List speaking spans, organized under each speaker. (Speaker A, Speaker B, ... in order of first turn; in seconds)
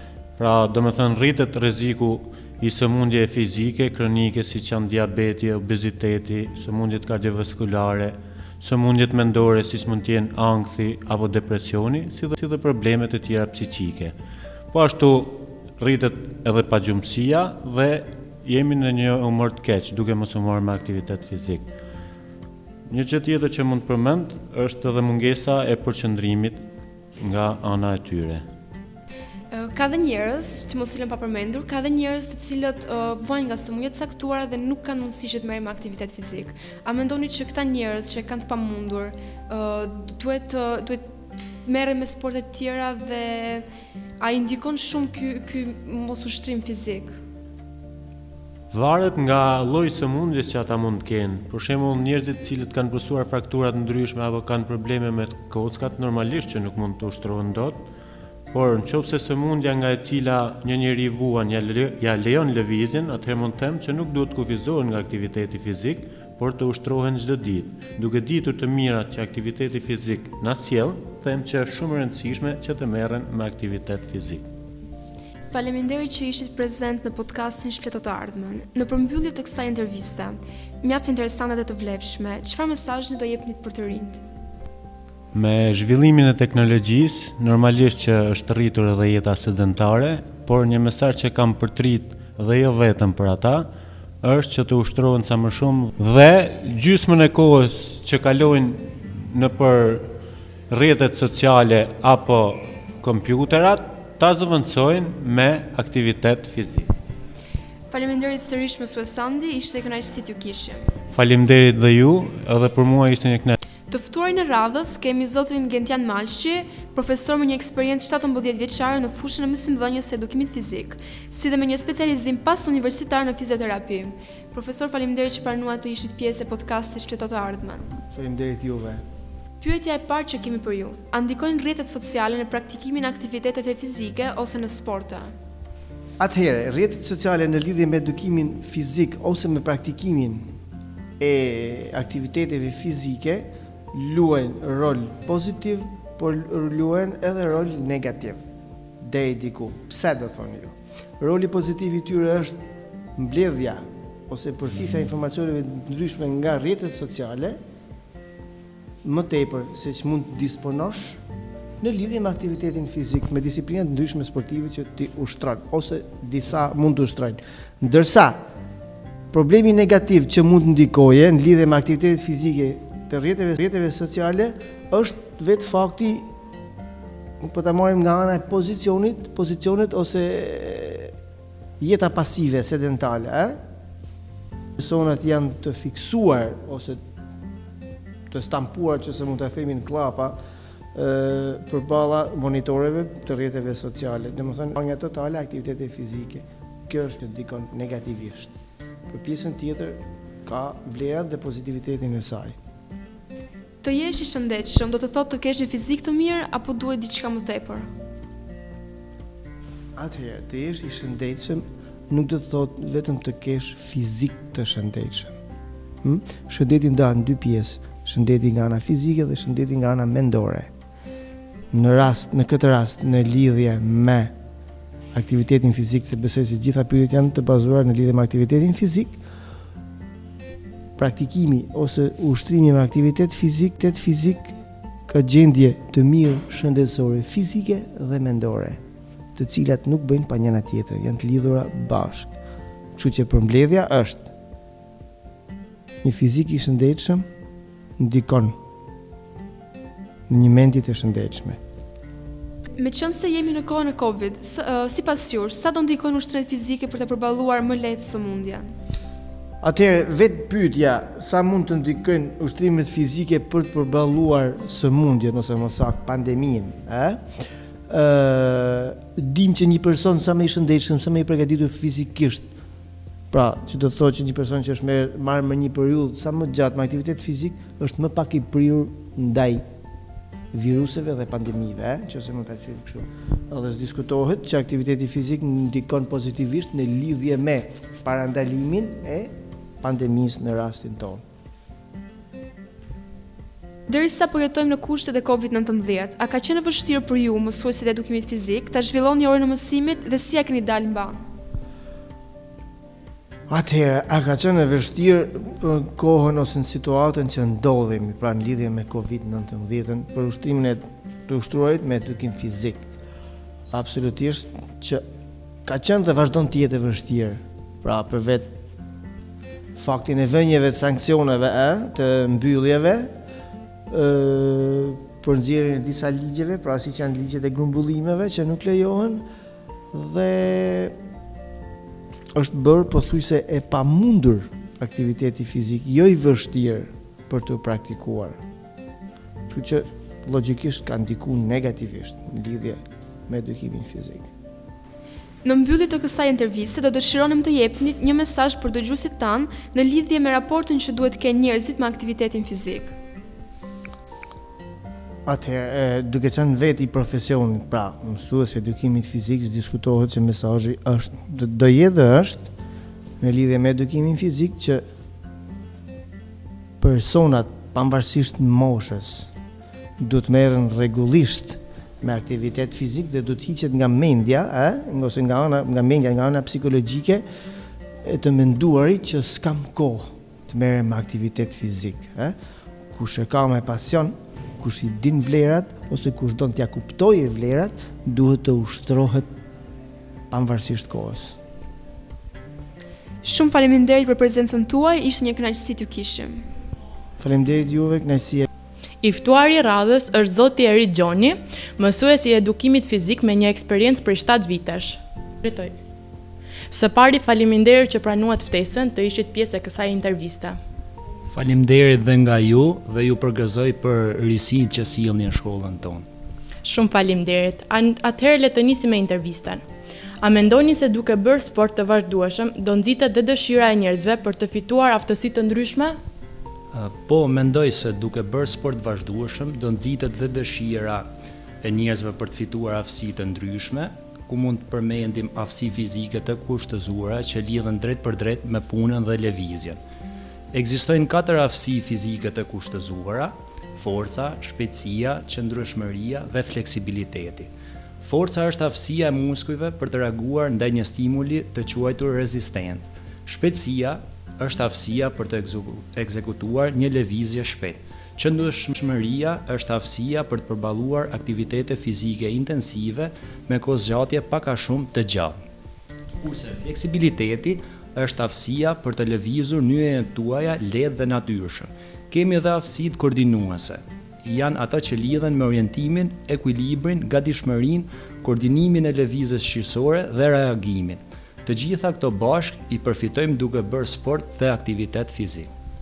Speaker A: 0.4-14.2, 14.7-21.7, 22.9-26.6, 27.2-28.4, 48.7-57.8, 58.5-74.4, 85.3-93.7, 94.2-100.1, 100.7-106.9, 111.1-113.6
Speaker B: 29.5-41.0, 41.6-43.6, 44.2-47.2, 75.5-84.2, 107.9-110.8, 113.9-127.9, 129.6-135.3, 203.8-207.9, 252.8-258.7, 293.9-301.2, 345.4-352.9, 393.2-396.4
Speaker C: 128.1-129.0, 136.2-140.4, 141.2-148.4, 149.0-152.6, 153.2-157.6, 159.0-161.2, 161.8-168.4, 169.3-176.3, 177.4-181.1, 181.8-183.6, 184.8-187.0, 188.3-190.4, 190.9-198.5, 199.1-202.6, 210.0-215.3, 216.0-220.7, 221.7-224.3, 225.1-229.2, 231.0-234.6, 235.1-238.8, 239.4-242.3, 243.0-244.2, 246.0-247.2, 248.0-248.6, 250.3-251.6, 259.6-267.2, 267.9-272.5, 273.3-279.6, 280.5-289.3, 289.8-291.2, 303.5-312.8, 313.7-315.0, 315.6-318.5, 319.8-323.1, 323.9-329.2, 329.9-330.9, 332.4-338.4, 339.5-342.8, 343.3-344.3, 355.3-362.5, 363.2-364.8, 366.8-369.3, 370.0-377.2, 378.0-382.3, 382.9-389.3, 390.3-391.4, 397.2-398.5
Speaker D: 399.0-405.8, 406.7-410.6, 416.6-419.6, 420.2-426.0
Speaker E: 411.3-416.1, 426.7-431.1, 431.6-439.8, 440.5-447.5, 448.0-465.4, 466.2-485.5